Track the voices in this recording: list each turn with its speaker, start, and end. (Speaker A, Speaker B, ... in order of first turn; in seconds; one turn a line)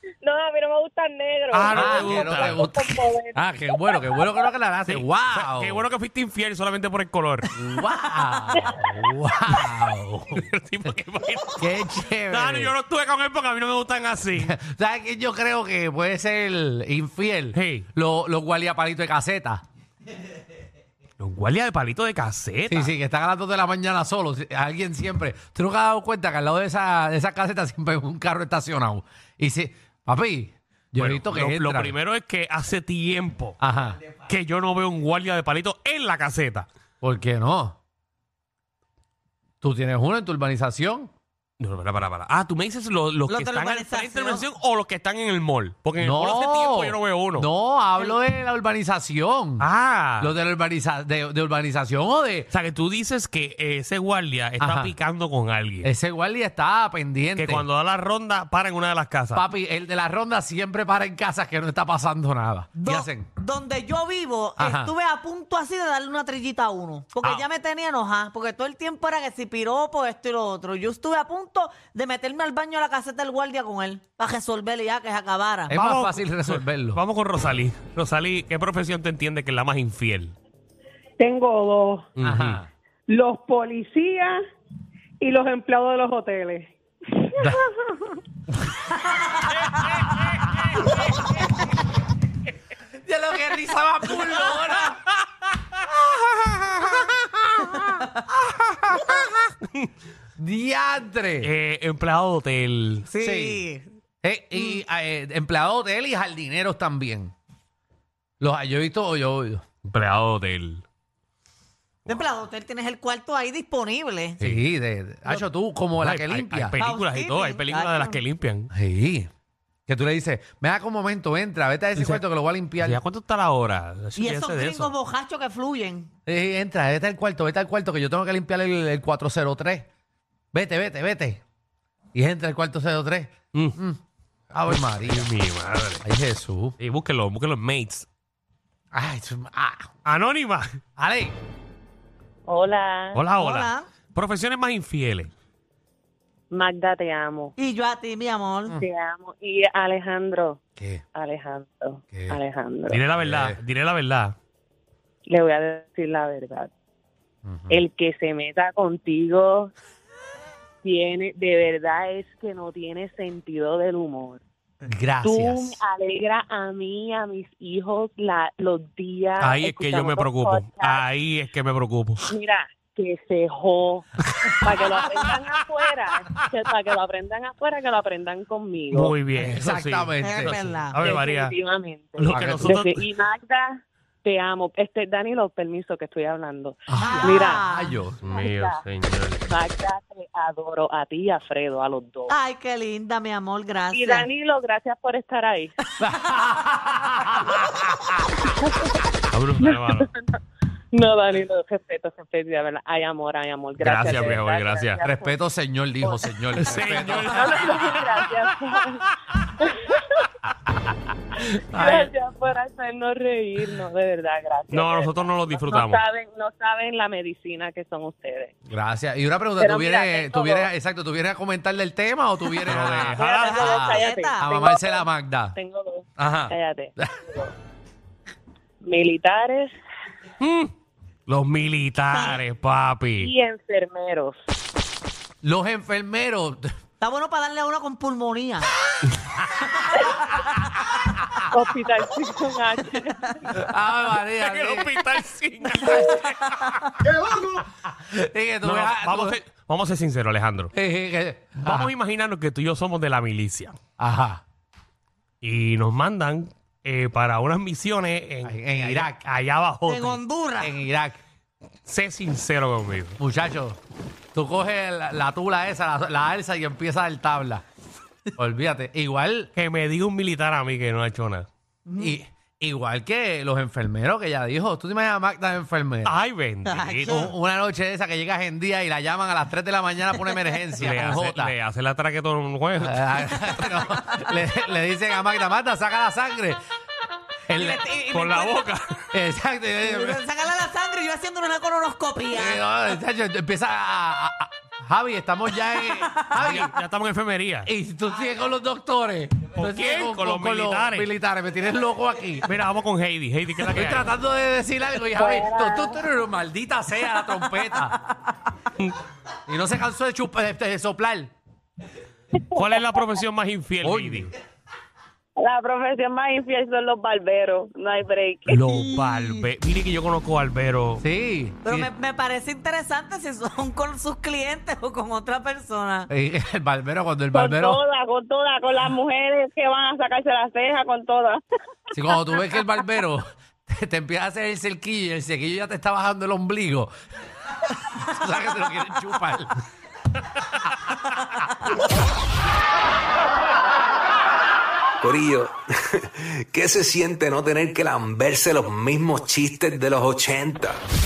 Speaker A: 0.2-4.0
Speaker B: 1.5-2.6
Speaker C: 1.7-5.8
Speaker B: 4.9-7.5
Speaker C: 7.5-10.4
Speaker B: 10.3-14.6
Speaker C: 11.6-12.7
Speaker C: 14.4-19.6
Speaker B: 17.5-17.9
Speaker B: 21.2-22.9
Speaker C: 22.7-32.0
Speaker B: 31.0-33.6
Speaker C: 33.6-34.0
Speaker B: 34.2-36.7
Speaker C: 37.0-37.8
Speaker C: 39.6-41.1
Speaker B: 41.6-47.5
Speaker D: 43.3-44.5
Speaker C: 46.0-49.7
Speaker B: 49.6-50.3
Speaker C: 50.2-52.5
Speaker B: 52.5-55.9
Speaker C: 54.6-54.9
Speaker C: 55.8-57.7
Speaker B: 57.3-59.5
Speaker C: 59.3-63.3
Speaker D: 62.8-75.7
Speaker C: 64.6-64.9
Speaker B: 67.2-67.5
Speaker C: 75.7-77.0
Speaker B: 75.7-80.3
Speaker A: 81.2-82.1
Speaker B: 82.2-82.6
Speaker C: 82.2-82.7
Speaker A: 83.1-84.4
Speaker A: 85.2-86.7
Speaker C: 87.4-87.7
Speaker B: 89.8-91.0
Speaker C: 93.0-95.0
Speaker C: 95.9-99.5
Speaker C: 100.4-101.5
Speaker B: 101.4-103.1
Speaker D: 103.1-103.9
Speaker C: 103.2-103.7
Speaker C: 104.2-107.3
Speaker C: 108.4-109.6
Speaker B: 109.8-110.8
Speaker D: 112.1-114.3
Speaker B: 114.4-114.7
Speaker C: 114.4-116.8
Speaker B: 116.0-118.7
Speaker D: 116.8-118.2
Speaker C: 118.7-119.3
Speaker C: 119.9-123.0
Speaker B: 122.0-122.2
Speaker B: 122.8-124.9
Speaker D: 124.2-126.1
Speaker C: 126.3-129.9
Speaker C: 130.5-131.4
Speaker C: 132.1-134.0
Speaker C: 134.5-135.3
Speaker B: 134.7-136.0
Speaker C: 136.0-136.8
Speaker B: 136.8-138.1
Speaker C: 138.9-139.9
Speaker B: 140.0-140.8
Speaker C: 141.0-141.3
Speaker A: 142.5-143.2
Speaker B: 143.1-145.3
Speaker D: 143.3-143.8
Speaker A: 146.5-147.5
Speaker D: 147.6-148.7
Speaker A: 148.8-150.6
Speaker C: 150.8-151.0
Speaker A: 151.2-153.0
Speaker C: 152.1-152.4
Speaker B: 152.9-154.3
Speaker C: 153.2-153.6
Speaker A: 155.3-156.7
Speaker C: 157.5-157.8
Speaker A: 157.7-159.7
Speaker A: 160.8-164.4
Speaker C: 164.8-165.8
Speaker A: 165.2-171.1
Speaker B: 169.4-172.3
Speaker A: 172.3-179.2
Speaker B: 174.3-174.8
Speaker B: 178.9-181.5
Speaker C: 179.3-180.7
Speaker D: 180.2-181.0
Speaker A: 181.0-187.7
Speaker B: 182.2-183.1
Speaker C: 182.3-182.8
Speaker C: 186.9-188.2
Speaker D: 187.0-188.0
Speaker B: 188.2-189.4
Speaker A: 188.3-188.8
Speaker A: 189.5-192.3
Speaker D: 192.3-194.3
Speaker A: 193.9-195.8
Speaker C: 196.0-198.1
Speaker A: 198.5-199.1
Speaker B: 199.3-200.1
Speaker A: 199.6-200.4
Speaker A: 200.9-205.3
Speaker B: 203.8-205.0
Speaker C: 205.0-207.7
Speaker A: 206.0-209.0
Speaker B: 206.6-208.3
Speaker A: 209.6-210.2
Speaker A: 211.4-218.5
Speaker C: 211.7-212.1
Speaker B: 214.7-216.0
Speaker C: 218.7-225.5
Speaker A: 219.6-220.7
Speaker B: 222.6-223.6
Speaker A: 223.0-227.5
Speaker D: 223.4-224.8
Speaker C: 226.2-227.1
Speaker A: 228.8-229.7
Speaker B: 230.4-230.7
Speaker B: 231.3-233.3
Speaker D: 232.1-232.4
Speaker A: 233.2-234.3
Speaker C: 235.4-236.7
Speaker D: 237.0-238.7
Speaker A: 241.5-243.6
Speaker C: 243.5-244.9
Speaker B: 244.4-246.9
Speaker C: 245.7-249.4
Speaker B: 248.6-250.7
Speaker C: 250.7-251.9
Speaker B: 251.6-253.8
Speaker C: 254.0-254.4
Speaker B: 255.4-260.2
Speaker C: 258.4-259.2
Speaker D: 259.9-260.7
Speaker C: 260.6-261.2
Speaker B: 261.9-263.2
Speaker C: 263.2-263.8
Speaker C: 264.3-267.6
Speaker C: 268.4-269.5
Speaker B: 269.5-271.5
Speaker D: 271.9-272.1
Speaker C: 272.0-276.1
Speaker B: 276.0-277.3
Speaker D: 276.7-277.2
Speaker C: 277.1-281.5
Speaker B: 280.8-283.7
Speaker C: 282.8-286.6
Speaker C: 287.5-287.9
Speaker D: 287.6-288.7
Speaker B: 288.1-289.1
Speaker C: 289.1-290.2
Speaker D: 289.8-292.6
Speaker C: 292.3-296.7
Speaker B: 296.4-297.7
Speaker C: 297.6-302.5
Speaker B: 299.6-301.1
Speaker B: 302.4-304.1
Speaker C: 303.7-308.0
Speaker A: 305.1-306.0
Speaker C: 309.5-311.3
Speaker B: 312.6-314.3
Speaker C: 313.8-314.3
Speaker A: 315.4-318.8
Speaker B: 318.5-321.0
Speaker D: 318.8-319.4
Speaker C: 321.0-321.9
Speaker D: 321.6-326.1
Speaker C: 326.1-327.8
Speaker A: 327.3-331.4
Speaker C: 331.9-336.9
Speaker C: 337.8-339.6
Speaker E: 345.0-350.8